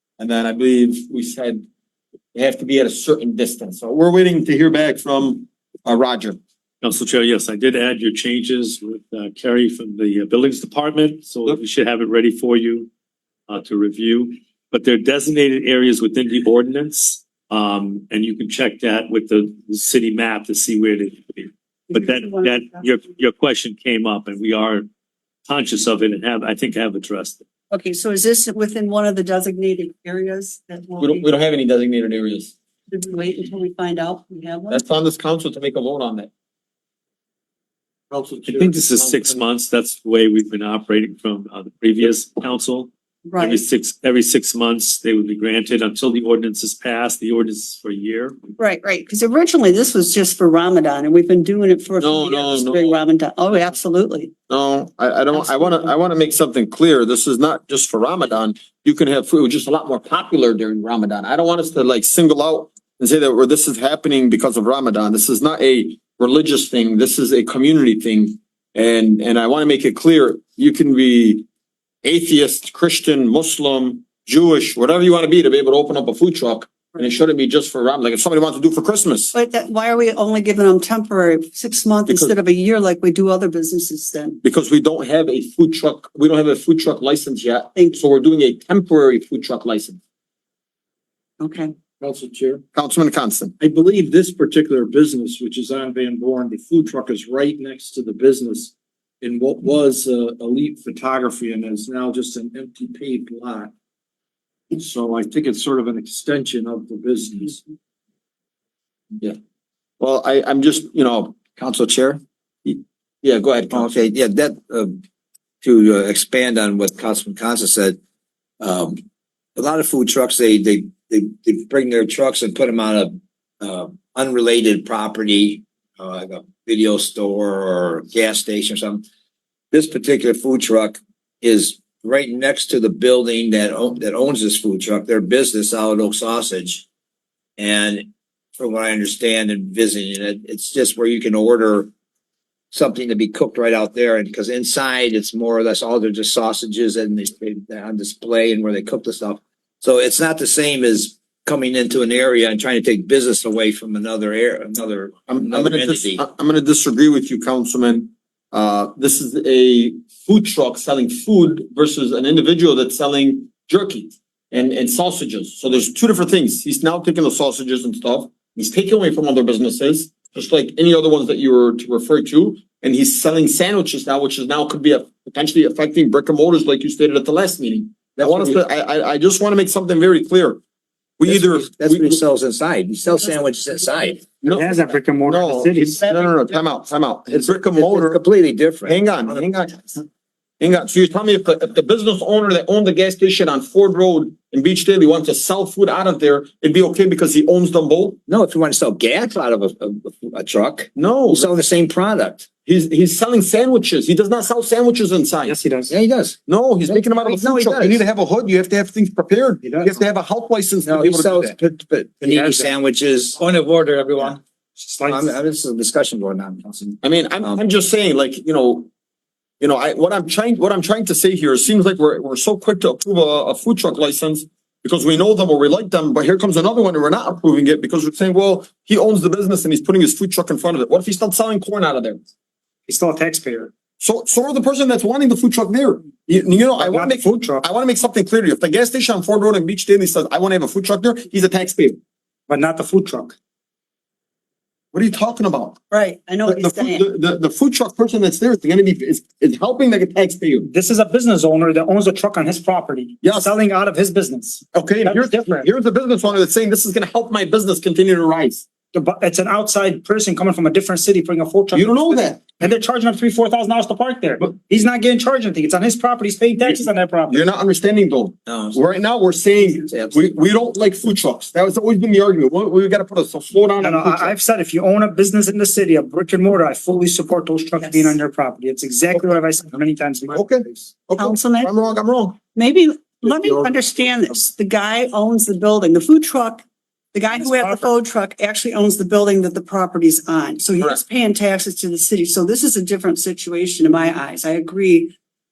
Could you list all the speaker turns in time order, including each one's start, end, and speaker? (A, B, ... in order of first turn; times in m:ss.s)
0:00.2-0:01.6 A
0:02.3-0:06.4 A
0:06.8-0:12.9 B
0:13.5-0:24.9 B
0:21.9-0:22.8 C
0:25.5-0:27.4 B
0:27.7-0:31.3 C
0:31.0-0:32.5 A
0:32.9-0:34.8 C
0:34.7-0:36.3 A
0:38.1-0:38.7 D
0:38.4-0:48.4 B
0:38.9-0:39.3 A
0:43.2-0:43.6 C
0:48.6-0:54.3 C
0:52.0-0:53.0 A
0:54.5-1:11.4 A
0:55.3-0:55.9 C
1:12.0-1:19.3 A
1:19.3-1:24.4 C
1:22.1-1:22.3 A
1:24.4-1:30.0 A
1:27.7-1:28.0 C
1:31.4-1:31.7 C
1:32.0-1:32.6 D
1:32.7-1:33.5 A
1:33.6-1:43.7 D
1:44.7-1:47.6 D
1:50.0-1:51.4 A
1:51.6-1:52.2 E
1:52.6-1:54.1 A
1:53.7-1:55.0 E
1:55.6-1:58.0 E
1:58.6-1:59.0 E
1:59.6-2:09.0 E
2:09.7-2:16.8 E
2:17.6-2:21.9 E
2:22.7-2:36.2 E
2:35.3-3:00.6 A
2:58.2-2:58.6 E
3:01.2-3:02.2 A
3:01.2-3:04.2 E
3:04.4-3:08.2 A
3:04.5-3:06.3 F
3:07.3-3:09.4 E
3:08.8-3:10.0 A
3:10.6-3:18.2 A
3:18.3-3:22.5 E
3:20.9-3:21.5 A
3:22.6-3:25.6 A
3:25.4-3:25.9 F
3:25.9-3:28.0 E
3:26.5-3:31.5 A
3:30.8-3:34.4 E
3:32.2-3:32.7 F
3:34.8-3:35.3 F
3:35.0-3:37.6 E
3:37.0-3:38.9 A
3:39.6-3:52.2 A
3:52.9-3:53.7 F
3:54.0-4:02.0 A
3:56.8-3:57.6 F
4:02.5-4:03.4 F
4:04.9-4:05.8 A
4:05.9-4:07.0 C
4:06.4-4:10.7 A
4:10.6-4:15.7 F
4:13.2-4:13.5 A
4:14.7-4:18.6 A
4:18.9-4:27.5 F
4:21.7-4:22.6 A
4:26.7-4:34.4 A
4:28.5-4:28.8 E
4:33.8-4:40.5 F
4:37.8-4:38.2 C
4:40.3-4:42.4 A
4:41.2-4:41.7 C
4:42.5-4:55.1 C
4:47.3-4:47.9 F